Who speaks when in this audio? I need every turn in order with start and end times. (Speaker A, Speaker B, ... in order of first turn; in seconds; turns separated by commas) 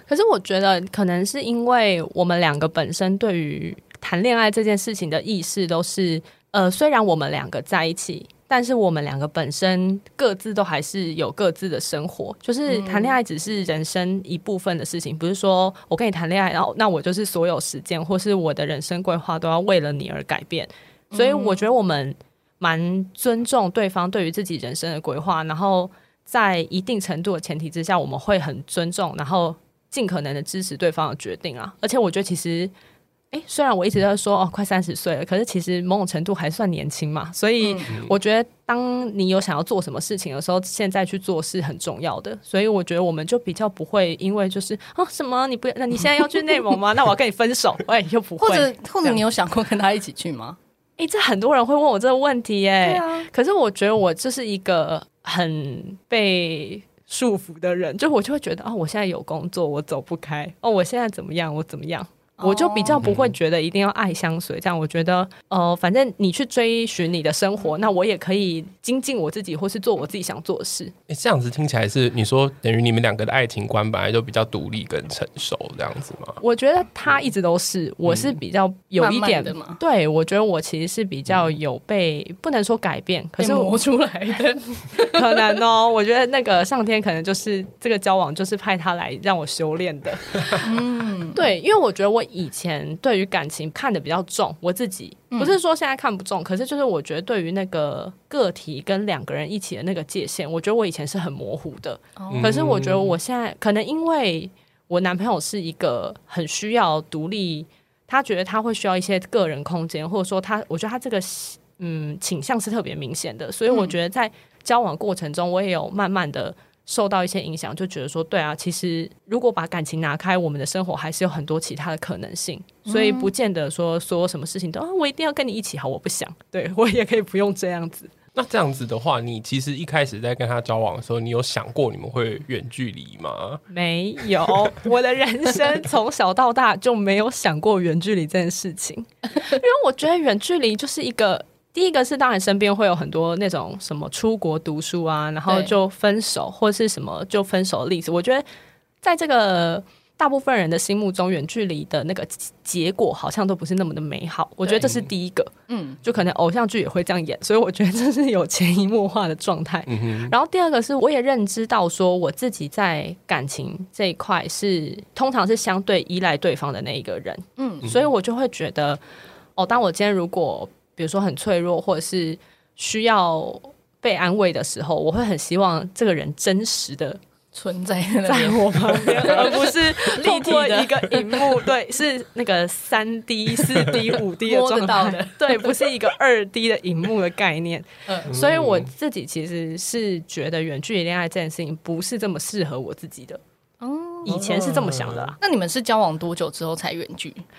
Speaker A: 0.1-32.7, Speaker B: 12.7-13.2, Speaker B: 21.1-21.6, Speaker A: 33.3-49.2, Speaker B: 48.4-50.6, Speaker A: 51.0-70.9, Speaker B: 52.8-53.3, Speaker B: 62.4-63.0, Speaker C: 63.0-63.3, Speaker C: 71.1-76.4, Speaker A: 76.4-83.8, Speaker C: 78.1-78.3, Speaker B: 79.0-79.8, Speaker B: 83.4-85.6, Speaker A: 85.0-90.7, Speaker B: 90.6-91.4, Speaker A: 91.3-128.1, Speaker B: 102.2-102.5, Speaker C: 102.3-103.2, Speaker B: 122.9-123.3, Speaker C: 128.3-133.6, Speaker A: 133.7-148.4, Speaker B: 145.5-145.7, Speaker A: 149.0-169.0, Speaker B: 155.7-156.0, Speaker C: 159.9-160.3, Speaker B: 167.6-167.9, Speaker A: 169.6-177.2, Speaker B: 177.5-181.6, Speaker A: 178.3-193.4, Speaker B: 183.9-185.9, Speaker C: 188.3-188.9, Speaker B: 193.8-194.4, Speaker A: 194.2-195.4, Speaker C: 194.3-195.3, Speaker B: 195.4-197.4